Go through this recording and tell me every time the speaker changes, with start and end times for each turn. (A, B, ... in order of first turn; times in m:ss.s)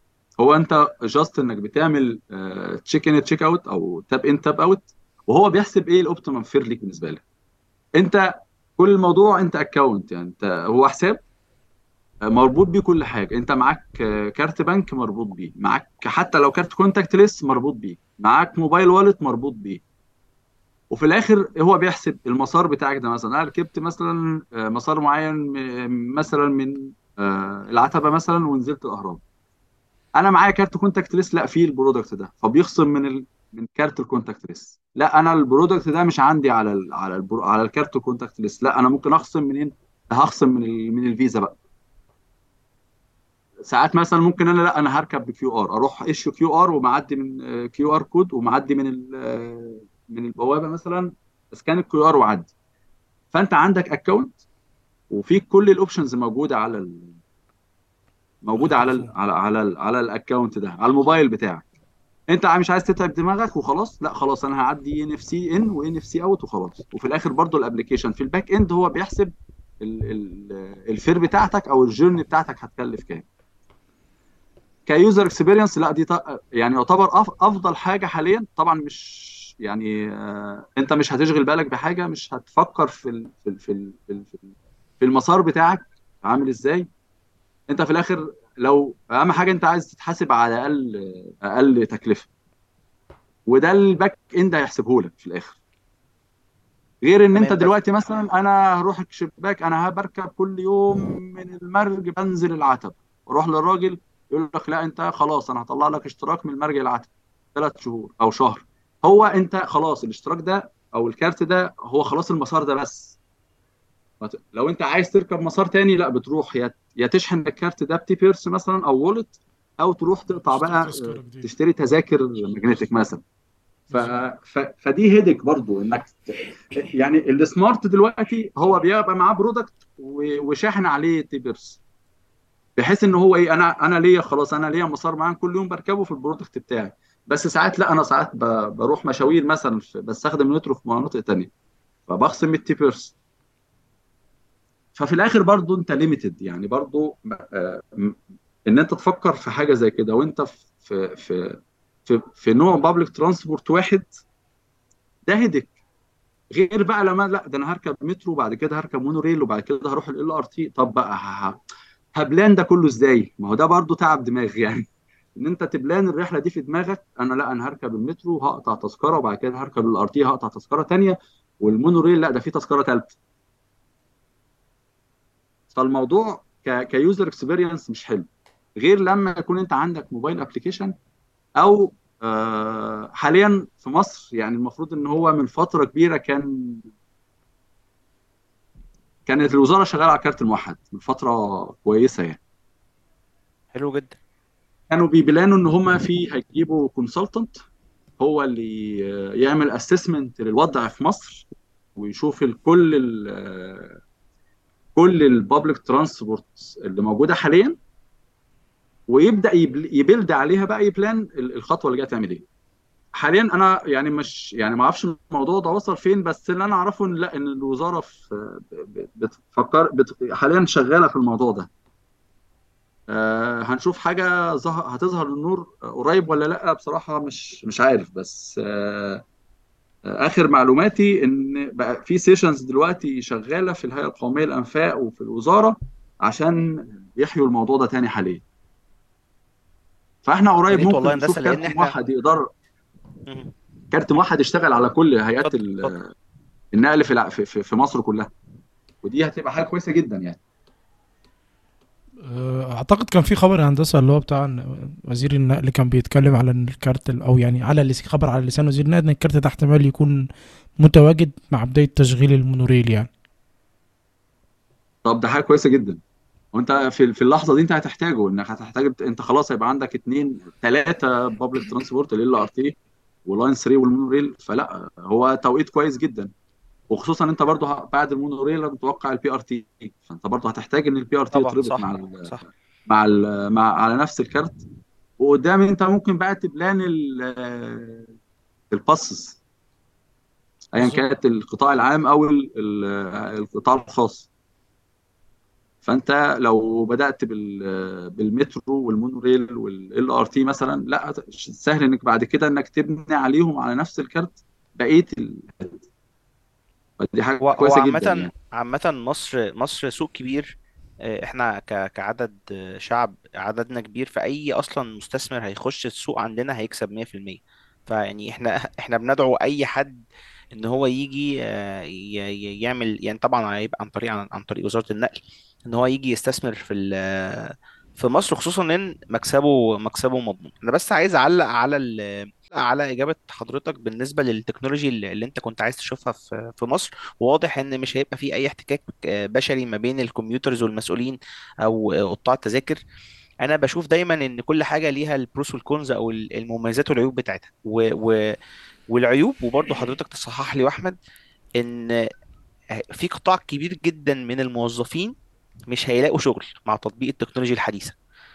0:00.4-0:07.2 A
0:08.0-0:11.2 A
0:12.3-0:19.8 A
0:20.9-0:29.2 A
0:30.2-0:41.6 A
0:43.7-0:52.5 A
0:53.3-0:54.3 A
0:55.1-0:57.2 A
0:58.4-1:01.7 A
0:58.6-0:59.1 B
1:02.3-1:13.3 A
1:14.9-1:26.9 A
1:27.7-1:32.3 A
1:33.5-1:35.6 A
1:37.0-1:53.2 A
1:37.3-1:37.7 C
1:54.2-2:03.2 A
2:00.3-2:01.5 B
2:03.9-2:04.2 B
2:03.9-2:11.8 A
2:12.8-2:21.5 A
2:22.1-2:23.1 A
2:25.0-2:34.1 A
2:35.3-2:35.7 A
2:36.5-2:41.6 A
2:42.2-2:53.2 A
2:55.7-2:58.3 A
2:58.8-3:00.9 A
3:01.6-3:06.8 A
3:09.3-3:12.4 A
3:13.7-3:14.2 C
3:14.9-3:17.6 A
3:18.2-3:24.0 A
3:25.0-3:27.8 A
3:29.1-3:32.4 A
3:33.2-3:41.7 A
3:43.1-3:49.2 A
3:50.1-3:58.4 A
4:00.2-4:02.4 A
4:00.7-4:01.9 C
4:03.3-4:03.5 C
4:03.9-4:06.1 A
4:05.4-4:05.9 C
4:06.7-4:08.3 A
4:09.0-4:10.4 A
4:12.2-4:20.2 B
4:20.8-4:23.1 B
4:25.0-4:26.0 A
4:26.5-4:36.3 A
4:36.9-4:42.3 A
4:41.3-4:42.4 C
4:42.9-4:44.6 A
4:45.2-4:48.1 A
4:48.7-4:49.4 A
4:50.7-4:54.3 A
4:55.8-5:05.8 A
5:07.0-5:08.3 A
5:07.4-5:42.8 C
5:43.4-5:48.2 C
5:48.9-5:51.0 C
5:51.6-5:51.9 C
5:52.9-5:55.1 C
5:55.7-5:58.0 C